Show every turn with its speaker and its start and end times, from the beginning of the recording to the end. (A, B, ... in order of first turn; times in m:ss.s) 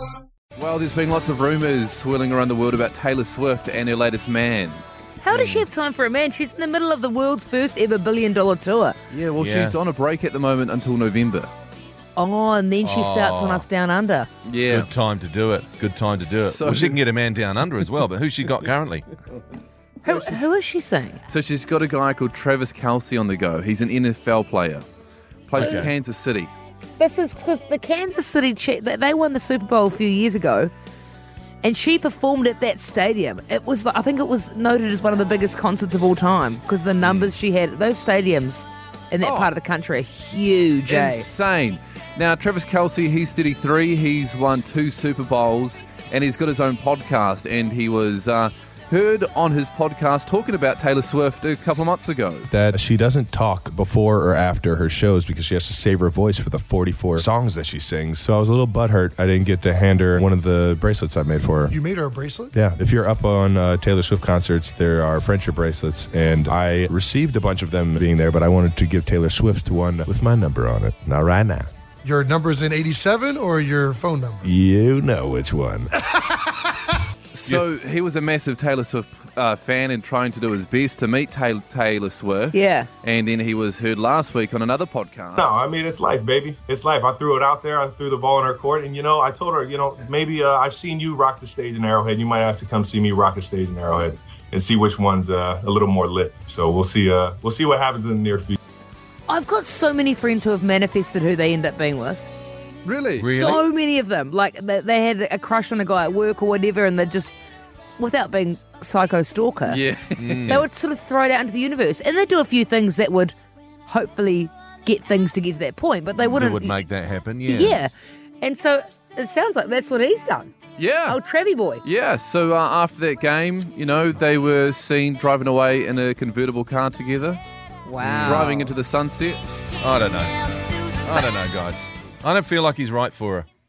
0:00.6-0:05.7 A
0:05.2-0:09.0 B
0:09.1-0:11.5 A
0:09.4-0:09.8 C
0:12.2-0:14.3 B
0:12.8-0:13.7 C
0:14.4-0:14.9 A
0:14.7-0:19.0 C
0:16.2-0:17.0 A
0:20.0-0:21.2 B
0:20.0-0:20.4 A
0:21.3-0:24.8 A
0:25.5-0:26.5 A
0:25.5-0:25.9 B
0:25.5-0:25.9 C
0:27.0-0:30.7 B
0:31.6-0:41.3 B
0:37.0-0:37.4 A
0:39.2-0:39.5 A
0:40.9-0:52.5 A
0:52.5-1:01.8 D
1:01.7-1:02.5 E
1:02.5-1:11.7 D
1:12.0-1:14.5 E
1:14.4-1:15.9 D
1:17.3-1:25.7 A
1:22.5-1:22.9 B
1:25.4-1:38.6 F
1:39.3-1:42.2 B
1:42.8-1:43.4 A
1:43.2-1:43.6 C
1:43.3-1:47.4 B
1:48.0-1:49.8 B
1:49.6-1:50.6 A
1:50.2-1:50.7 C
1:50.5-1:53.3 B
1:53.9-1:56.8 B
1:56.2-1:57.8 C
1:57.4-2:00.5 B
2:00.8-2:01.2 A
2:01.1-2:01.8 B
2:01.8-2:07.4 A
2:07.9-2:08.7 B
2:08.0-2:08.5 C
2:08.0-2:09.4 A
2:09.8-2:13.5 C